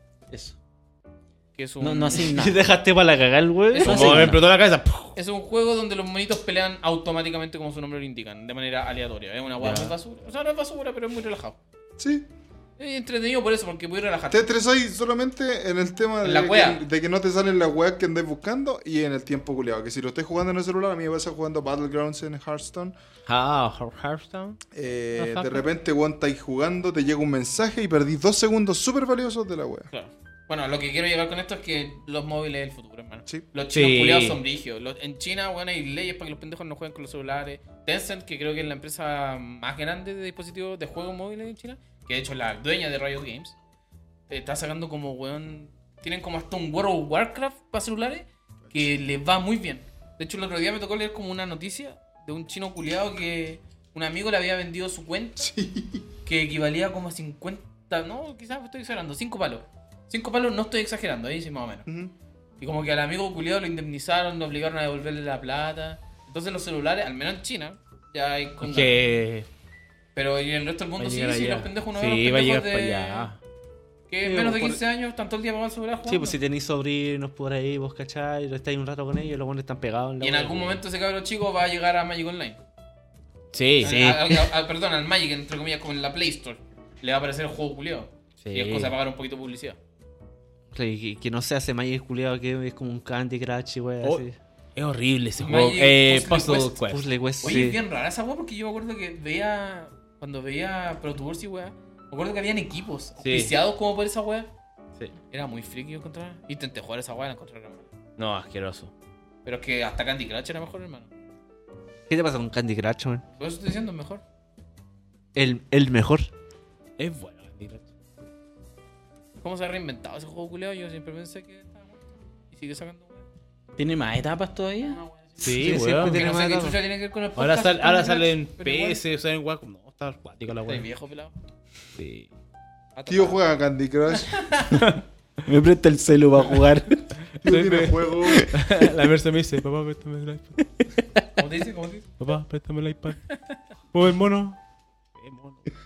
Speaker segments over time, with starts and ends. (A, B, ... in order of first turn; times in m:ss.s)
0:01.5-0:02.3 A
0:01.8-0:02.6 B
0:02.2-0:04.4 C
0:03.7-0:04.0 A
0:03.8-0:04.4 B
0:03.8-0:05.2 D
0:05.2-0:11.6 A
0:12.0-0:12.3 E
0:12.8-0:14.5 A
0:14.3-0:22.9 E
0:16.2-0:16.8 A
0:23.2-0:24.6 D
0:24.7-0:29.9 E
0:25.2-0:25.6 D
0:29.9-0:43.5 A
0:33.7-0:34.4 D
0:44.3-0:55.5 A
0:55.4-0:56.0 E
0:56.2-1:01.8 A
1:01.8-1:02.1 E
1:02.6-1:09.0 A
1:08.6-1:09.5 D
1:10.1-1:13.3 A
1:11.0-1:13.4 D
1:14.1-1:16.4 A
1:14.2-1:14.8 C
1:16.1-1:20.8 C
1:20.2-1:22.6 A
1:23.5-1:24.0 D
1:23.8-1:29.8 A
1:23.8-1:24.5 C
1:28.4-1:28.9 D
1:30.7-1:34.4 C
1:34.8-1:37.6 D
1:35.4-1:36.8 A
1:36.9-1:37.8 C
1:37.4-1:44.5 A
1:43.2-1:43.5 D
1:45.3-1:47.9 A
1:48.2-1:48.9 D
1:49.4-1:51.1 A
1:52.1-1:53.2 C
1:53.4-1:54.2 A
1:55.3-1:56.3 C
1:57.0-1:57.8 D
1:59.4-2:03.2 A
2:03.8-2:05.0 B
2:04.9-2:09.0 A
2:05.4-2:06.8 C
2:05.4-2:06.3 D
2:07.4-2:10.9 D
2:10.6-2:11.3 A
2:12.0-2:12.3 D
2:12.9-2:13.4 A
2:13.1-2:14.5 E
2:14.3-2:14.8 A
2:14.8-2:15.0 D
2:15.4-2:17.0 B
2:17.4-2:21.0 D
2:17.4-2:18.5 E
2:18.3-2:18.5 B
2:21.4-2:22.1 A
2:22.2-2:23.2 D
2:23.3-2:23.6 A
2:23.9-2:24.6 D
2:25.2-2:25.7 D